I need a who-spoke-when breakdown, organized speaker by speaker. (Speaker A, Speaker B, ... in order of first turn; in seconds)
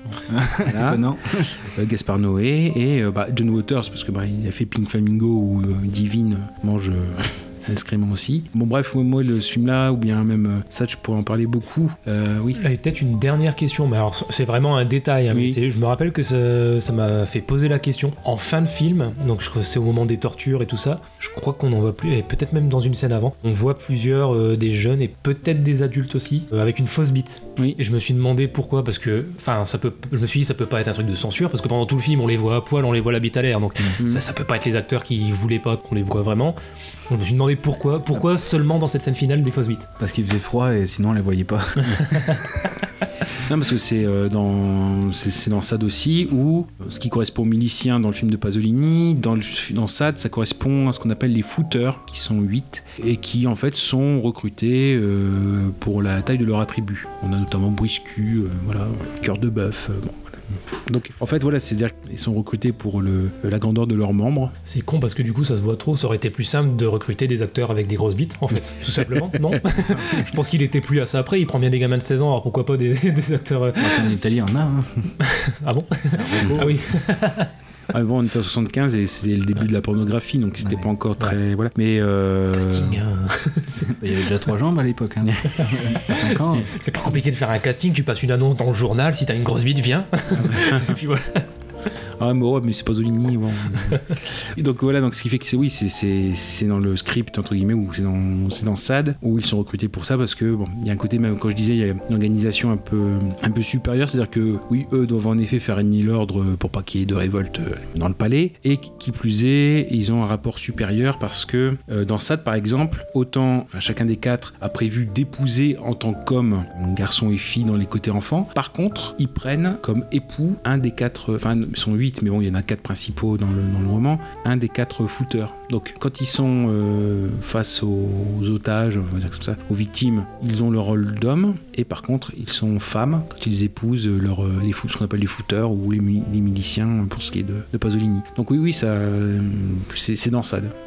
Speaker A: 0.3-1.5, 40.0-42.2, 73.8-75.1, 76.3-76.7, 80.6-80.9, 83.9-86.7
Speaker B: 0.6-12.6, 15.3-15.6, 43.4-64.5, 76.3-76.6, 77.9-83.0, 90.3-91.0, 92.2-140.7
Speaker C: 12.6-36.6, 37.1-39.9, 42.1-42.4, 64.7-74.1, 75.3-77.5, 82.6-83.9, 85.5-91.5